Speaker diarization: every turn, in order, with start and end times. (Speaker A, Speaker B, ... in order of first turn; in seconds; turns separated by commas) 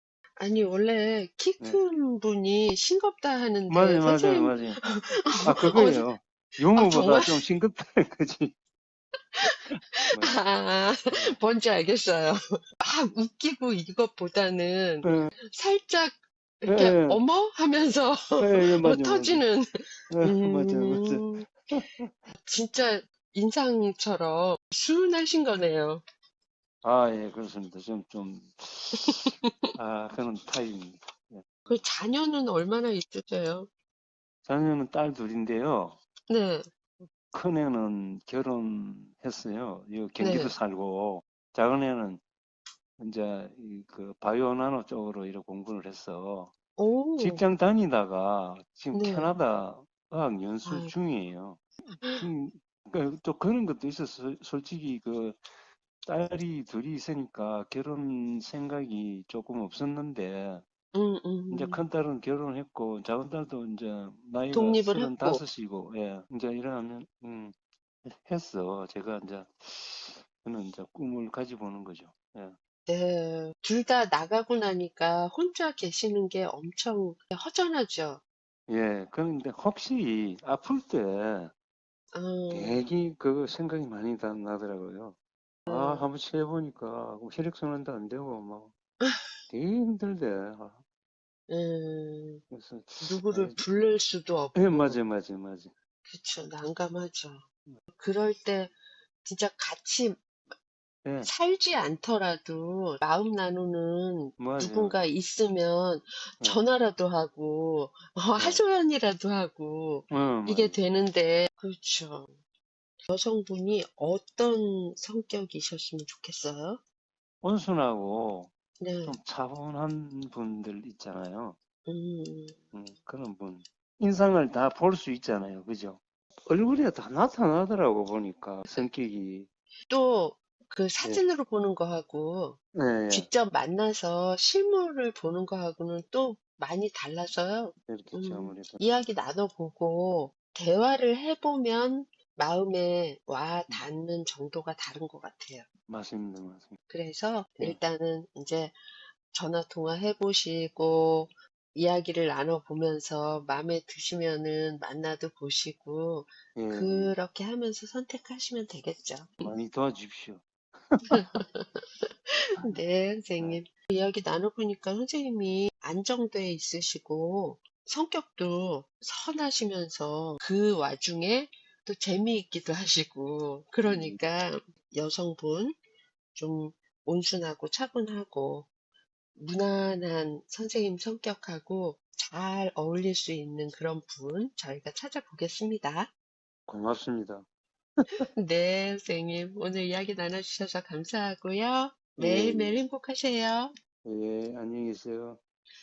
Speaker A: 0.4-6.1, Speaker B: 3.7-4.9, Speaker B: 5.4-8.6, Speaker A: 6.7-7.4, Speaker A: 9.4-21.5, Speaker B: 9.7-10.4, Speaker B: 11.1-11.4, Speaker B: 15.0-15.3, Speaker B: 16.7-17.2, Speaker B: 18.4-19.4, Speaker B: 20.1-22.1, Speaker A: 22.4-26.0, Speaker B: 26.8-31.8, Speaker A: 28.9-29.7, Speaker A: 31.7-33.7, Speaker B: 34.4-36.0, Speaker A: 36.3-36.6, Speaker B: 37.3-42.2, Speaker A: 40.2-40.5, Speaker B: 43.0-46.5, Speaker A: 46.8-47.4, Speaker B: 47.2-55.4, Speaker A: 48.9-49.3, Speaker A: 50.6-50.9, Speaker B: 56.0-60.6, Speaker A: 60.9-61.8, Speaker B: 61.5-67.5, Speaker A: 64.5-65.4, Speaker B: 68.0-72.5, Speaker A: 72.9-78.2, Speaker B: 78.7-81.5, Speaker A: 82.1-82.8, Speaker B: 82.5-88.7, Speaker A: 85.7-86.1, Speaker A: 89.0-89.3, Speaker B: 89.5-90.8, Speaker A: 91.5-92.4, Speaker B: 92.5-93.6, Speaker A: 93.0-95.0, Speaker B: 94.5-95.7, Speaker A: 96.0-100.2, Speaker B: 101.0-101.3, Speaker A: 101.2-112.3, Speaker B: 104.4-105.0, Speaker B: 108.4-108.6, Speaker B: 110.1-110.8, Speaker A: 113.1-116.8, Speaker B: 117.4-118.5, Speaker A: 118.8-119.2, Speaker B: 119.0-121.6, Speaker A: 121.8-122.6, Speaker B: 122.7-129.5, Speaker A: 129.9-145.7, Speaker B: 132.7-133.3, Speaker B: 137.9-138.8, Speaker B: 145.9-146.8, Speaker A: 146.9-148.7, Speaker A: 149.3-159.5, Speaker B: 156.5-157.2, Speaker B: 159.4-161.3, Speaker A: 161.1-175.8, Speaker B: 173.8-174.2, Speaker A: 176.3-178.7, Speaker A: 179.3-186.1, Speaker B: 186.7-187.4, Speaker A: 188.3-193.7, Speaker B: 192.2-192.8, Speaker B: 194.0-195.4